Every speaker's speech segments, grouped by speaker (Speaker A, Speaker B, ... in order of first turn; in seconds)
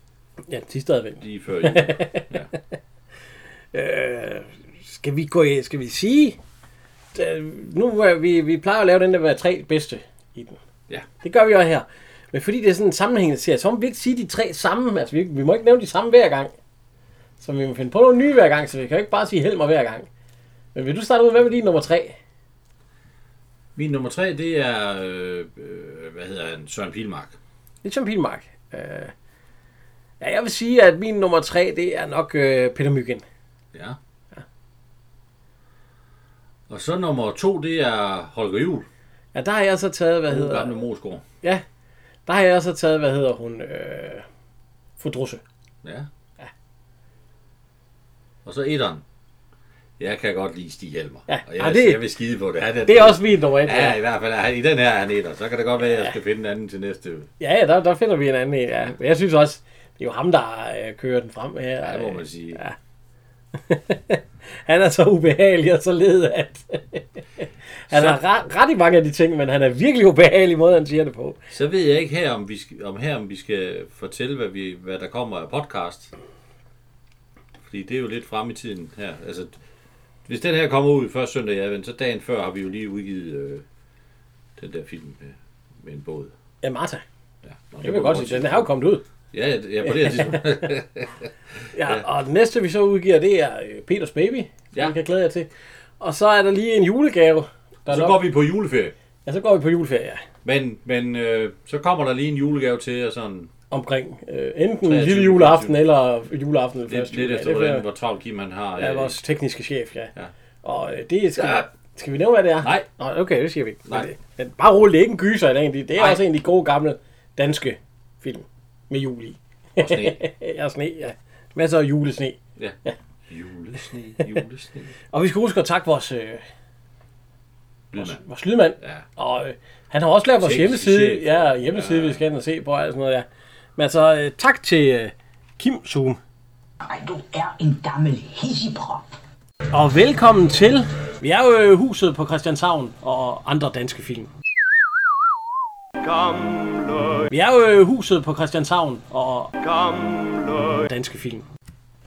Speaker A: 0.5-2.7, 3.7-6.4, 7.1-10.6, 11.2-16.5, 17.4-20.1, 20.7-22.2, 27.8-29.1, 30.2-33.2, 39.3-40.7, 42.2-44.2, 45.0-45.4, 51.3-52.0, 52.9-54.0, 57.4-62.8, 63.5-71.4, 86.6-87.0, 87.8-89.0, 90.0-90.7, 91.7-98.2, 99.2-100.2, 103.7-107.8, 108.8-110.1, 110.6-122.9, 125.1-126.4, 127.9-133.2, 133.8-136.2, 139.7-144.3, 147.3-151.4
Speaker B: 1.2-2.5, 23.8-27.4, 36.7-38.9, 40.3-41.2, 45.8-46.1, 48.4-49.0, 50.0-57.3, 61.8-62.6, 67.9-68.2, 71.5-76.1, 77.6-79.5, 80.2-83.6, 84.6-86.3, 87.4-88.7, 89.3-91.3, 97.9-98.9, 100.4-103.5, 104.8-105.8, 106.9-109.2, 111.3-111.7, 112.6-112.9, 116.0-116.2, 119.8-120.2, 123.3-124.9, 127.9-128.2, 128.8-129.0, 130.4-132.2
Speaker C: 136.8-139.1, 146.2-146.9